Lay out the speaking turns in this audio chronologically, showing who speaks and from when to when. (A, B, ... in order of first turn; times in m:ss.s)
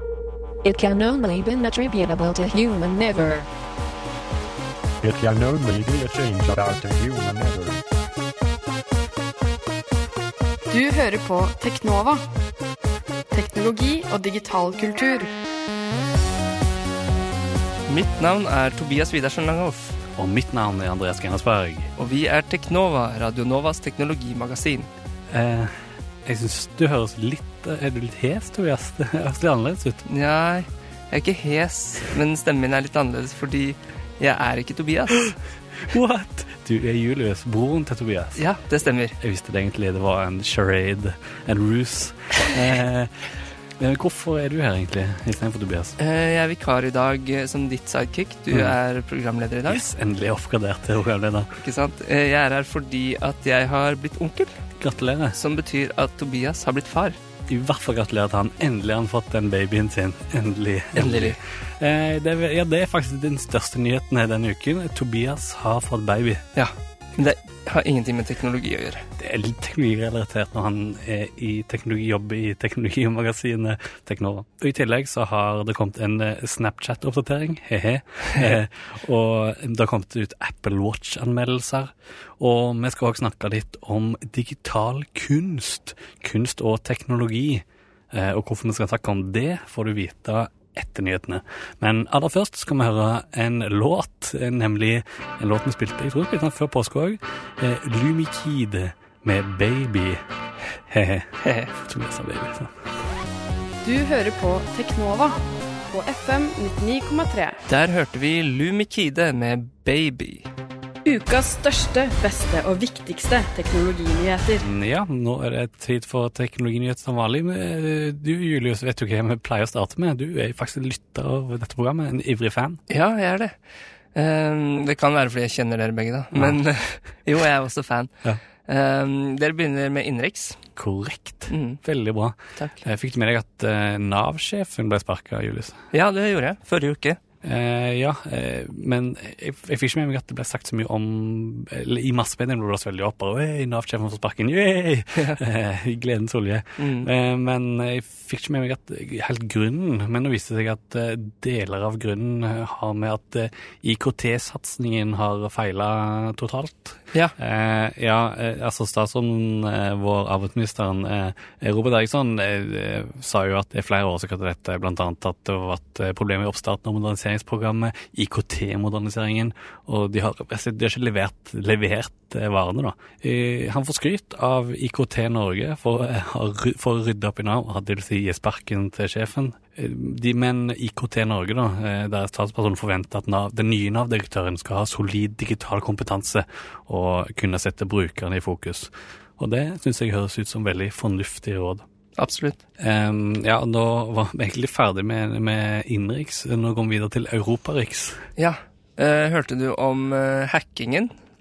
0:00.6-0:03.4 A
0:05.0-0:07.8 B
0:10.7-0:12.2 C
0:13.3-0:15.3 C
0:17.8-0:20.0 D
0:20.2-0:21.9 E
0:22.0-0:24.9 D
0:25.3-0:25.7 E
0:26.2-0:30.0 E
0:30.0-0:35.3 D
0:35.8-0:38.4 E
0:38.4-0:39.2 D
0:39.2-0:46.0 E
0:46.0-0:49.8 D
0:49.7-0:51.5 E
0:51.6-0:54.5 D
0:54.8-0:55.4 E
0:55.3-0:57.2 D
0:57.5-1:06.4 E
1:00.9-1:01.4 D
1:06.6-1:09.1 D
1:09.2-1:40.2 E
1:40.9-1:42.8 E
1:41.4-1:41.7 D
1:43.8-1:47.6 C
1:47.7-1:50.5 D
1:51.0-1:54.6 C
1:54.6-2:02.8 E
2:02.9-2:03.5 D
2:04.1-2:08.1 D
2:08.6-2:10.6 D
2:10.8-2:15.8 E
2:11.5-2:11.8 D
2:12.6-2:12.8 D
2:15.9-2:17.2 D
2:17.4-3:11.8 E
2:26.8-2:27.1 D
3:12.2-3:12.6 D
3:12.8-3:18.2 E
3:18.4-3:21.1 D